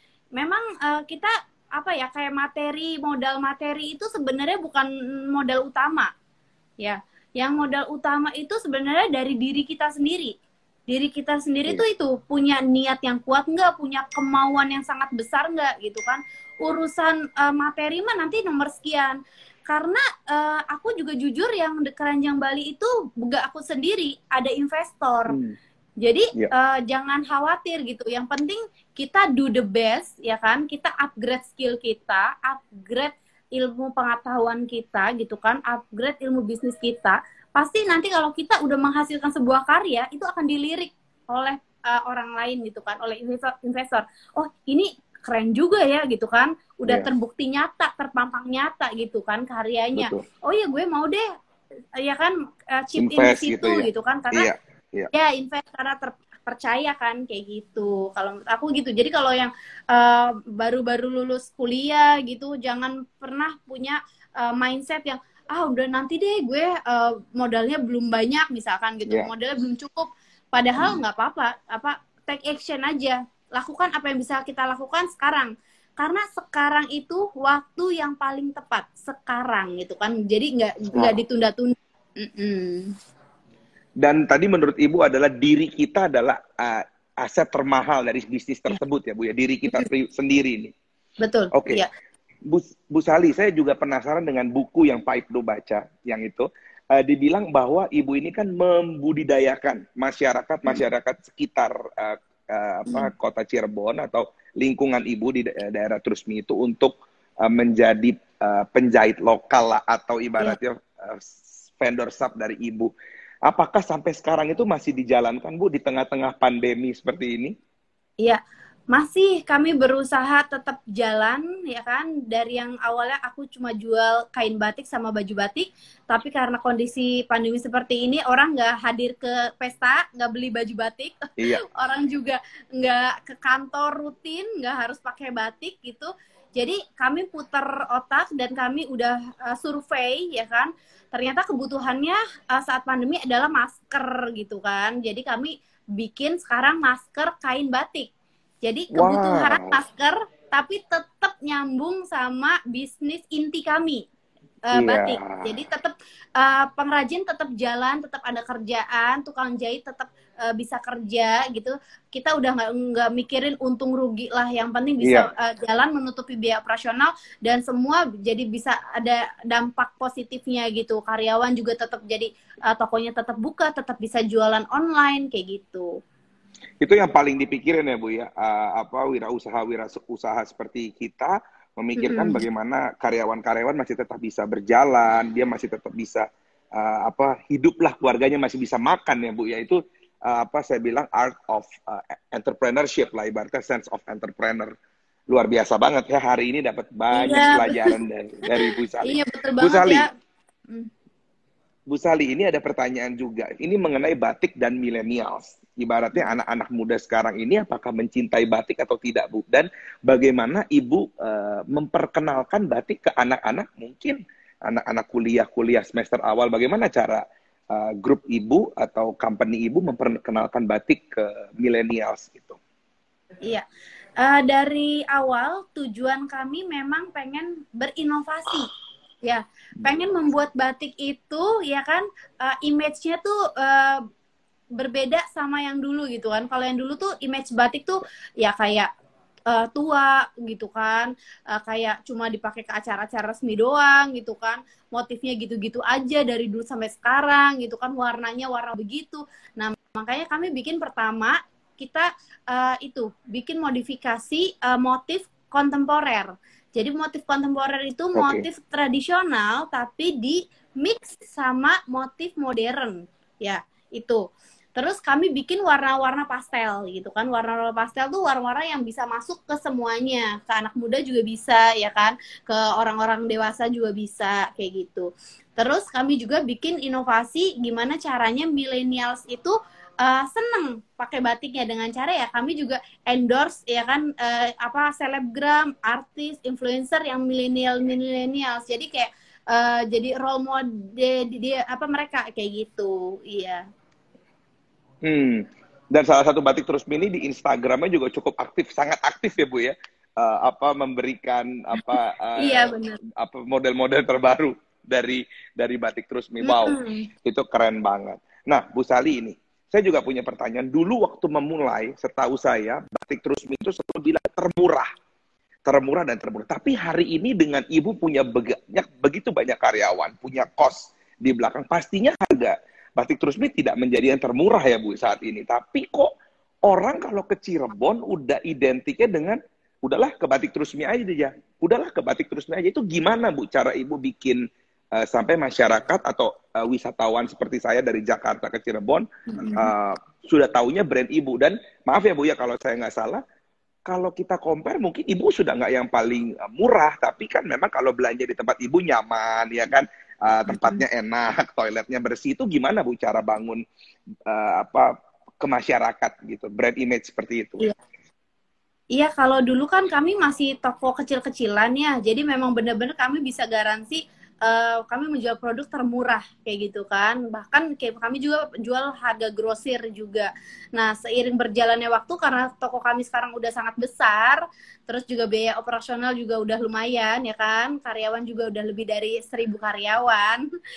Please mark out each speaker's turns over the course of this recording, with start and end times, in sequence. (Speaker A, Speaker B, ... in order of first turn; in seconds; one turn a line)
Speaker A: 0.3-6.1
Speaker A: 6.8-10.3
Speaker A: 10.9-25.4
Speaker B: 25.3-25.6
Speaker A: 26.0-51.2
Speaker B: 50.0-50.2
Speaker A: 52.0-54.5
Speaker B: 53.0-55.1
Speaker A: 55.1-82.9
Speaker B: 84.0-90.7
Speaker A: 91.2-91.9
Speaker B: 91.5-91.8
Speaker B: 92.5-112.9
Speaker B: 113.5-117.5
Speaker A: 118.9-148.1
Speaker A: 148.6-154.0
Speaker B: 148.9-149.8
Speaker A: 154.7-176.0
Speaker B: 154.7-155.5
Speaker B: 165.0-165.3
Speaker B: 176.8-194.7
Speaker A: 182.0-182.4
Speaker B: 195.3-200.1
Speaker A: 197.1-198.0
Speaker A: 198.7-200.1
Speaker B: 201.9-222.6
Speaker A: 224.2-228.7
Speaker A: 229.2-234.0
Speaker A: 234.8-238.9
Speaker A: 239.5-293.6
Speaker B: 258.1-258.4
Speaker B: 295.0-314.9
Speaker A: 301.8-303.0
Speaker A: 306.4-307.1
Speaker B: 315.6-326.1
Speaker B: 326.6-343.2
Speaker A: 339.3-339.7
Speaker B: 343.9-353.6
Speaker A: 350.5-350.8
Speaker B: 354.3-357.7
Speaker A: 358.9-380.4